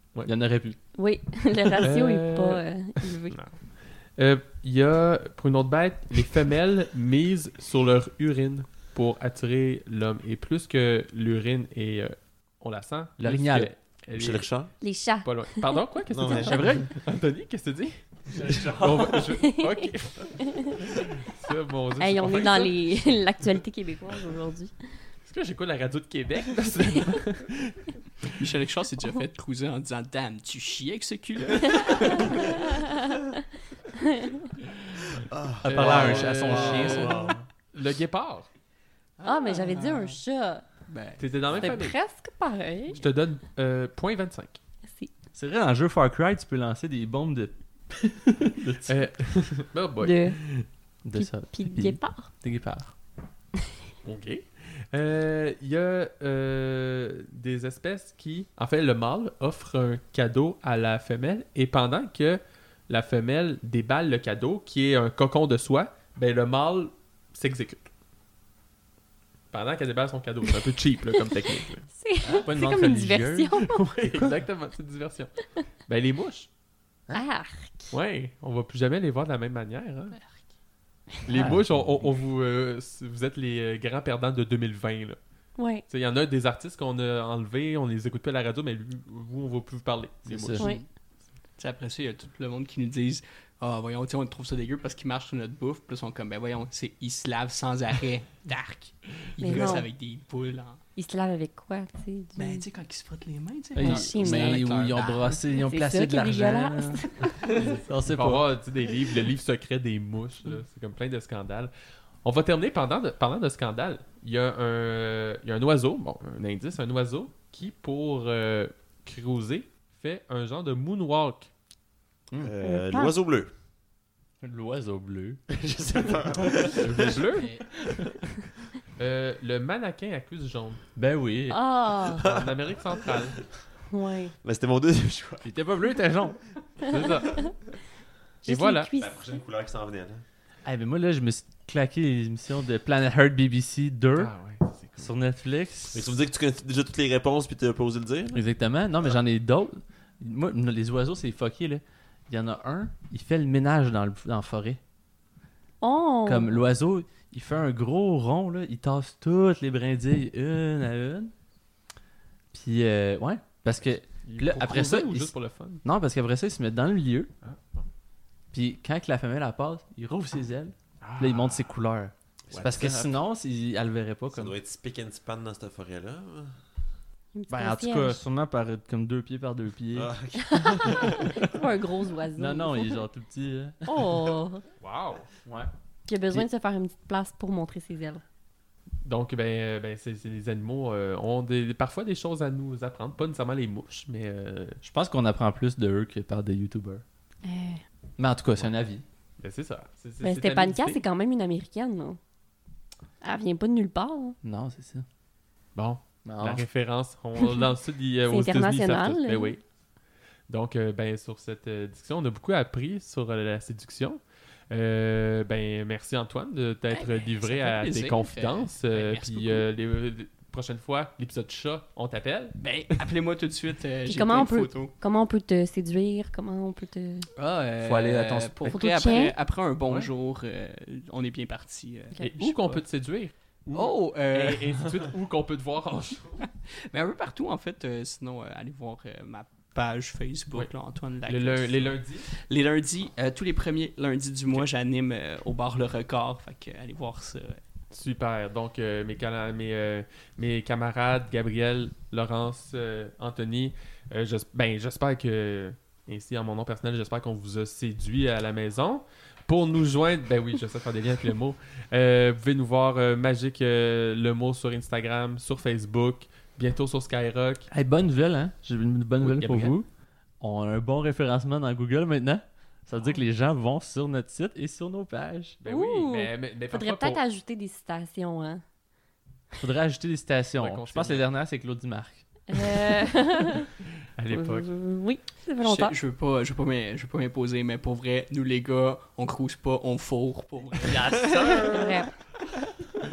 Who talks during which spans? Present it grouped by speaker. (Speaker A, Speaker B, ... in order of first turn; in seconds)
Speaker A: 0.2-0.8, 13.2-13.7, 16.4-16.9, 18.4-19.2, 35.6-37.4, 45.3-49.1, 51.0-52.9, 72.2-74.3, 81.3-81.7, 90.2-90.7, 103.7-108.5, 124.4-125.4, 125.9-128.2, 130.9-131.6, 135.4-136.4, 140.6-144.3, 145.0-146.2, 148.3-154.8, 156.2-161.3, 162.5-167.3, 168.5-174.6, 177.5-180.1, 180.7-181.3, 182.4-184.2, 185.4-185.7, 194.8-197.0, 198.2-199.0, 204.4-205.0, 206.2-206.6, 227.8-228.8, 267.7-269.9, 270.4-275.6, 279.6-282.6, 290.9-291.9
Speaker B: 0.9-3.4, 14.8-16.7, 19.4-19.9, 20.5-20.9, 22.0-25.0, 31.8-32.5, 34.0-34.4, 39.2-40.7, 41.5-43.0, 44.8-45.1, 50.0-50.4, 51.1-52.3, 71.9-73.9, 77.1-77.9, 85.6-85.8, 99.4-99.9, 101.0-102.7, 103.8-107.6, 122.6-123.1, 131.5-132.3, 133.9-134.3, 136.8-137.7, 138.4-139.4, 155.8-156.7, 177.3-178.2, 180.4-183.0, 183.8-184.6, 186.1-188.2, 197.4-197.8, 200.2-202.2, 203.2-204.3, 208.2-209.6, 224.1-227.3, 228.7-229.3, 275.7-278.6, 282.5-283.7, 284.3-285.9, 291.6-292.1
Speaker C: 1.8-2.6, 3.3-14.5, 15.2-22.9, 25.2-28.3, 35.6-38.5, 41.2-42.0, 42.9-44.6, 48.9-50.7, 54.0-67.8, 69.5-71.9, 73.9-76.5, 77.9-80.2, 81.2-85.2, 85.9-90.7, 107.5-111.7, 112.2-121.5, 126.7-127.5, 128.9-130.8, 132.1-133.4, 136.8-137.5, 138.4-138.9, 144.2-145.1, 163.8-165.8, 167.4-167.8, 171.0-171.7, 184.8-185.2, 189.0-194.8, 199.4-201.0, 205.7-209.6, 210.5-222.9, 232.2-236.5, 241.2-242.3, 247.9-267.7, 269.2-269.8, 275.6-277.2, 280.6-281.3, 284.1-284.7
Speaker D: 14.1-14.7, 16.1-16.9, 18.4-18.9, 35.3-37.4, 122.4-123.5, 125.5-127.2, 132.1-132.6, 134.4-135.5, 139.0-140.2, 145.9-148.4, 172.5-173.1, 174.3-176.6, 179.9-181.5
Speaker E: 28.4-32.5, 39.2-40.2, 40.8-41.8, 80.1-80.4, 90.6-90.8, 91.5-100.8, 102.4-105.6, 216.9-219.7, 222.6-224.9, 227.4-232.8, 233.7-234.9, 236.7-247.6, 285.6-291.7